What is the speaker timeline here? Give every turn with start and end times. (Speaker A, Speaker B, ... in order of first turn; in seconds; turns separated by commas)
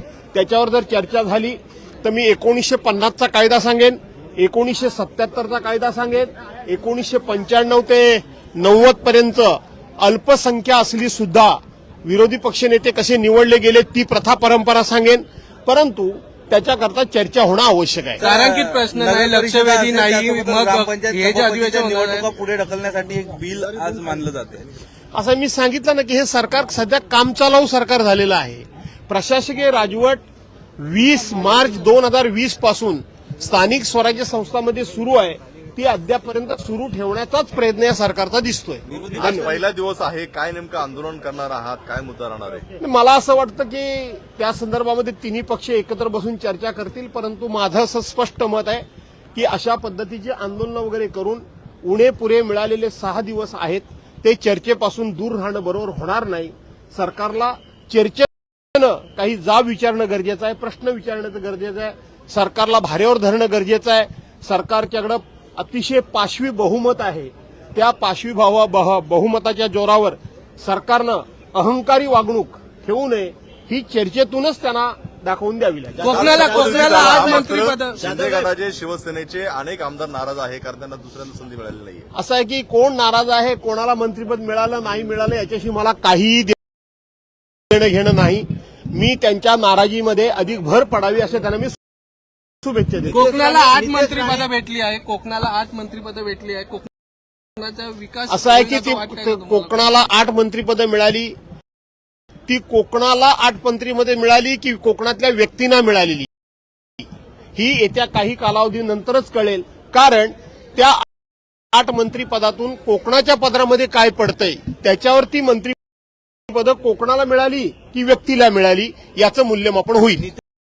Speaker A: 0.3-18.2, Speaker B: 18.2-22.3, Speaker C: 18.2-24.7, Speaker A: 25.1-30.2, Speaker A: 30.8-39.5, Speaker C: 39.0-39.5, Speaker D: 39.0-42.7, Speaker A: 42.8-76.6, Speaker B: 76.0-78.0, Speaker C: 76.1-78.5, Speaker D: 76.4-82.1, Speaker A: 82.1-86.6, Speaker A: 87.7-91.8, Speaker A: 92.6-93.3, Speaker B: 93.1-96.9, Speaker C: 93.2-94.5, Speaker B: 97.6-100.0, Speaker A: 98.3-101.3, Speaker A: 102.5-106.3, Speaker A: 107.6-111.1, Speaker A: 111.7-115.8, Speaker A: 116.5-120.3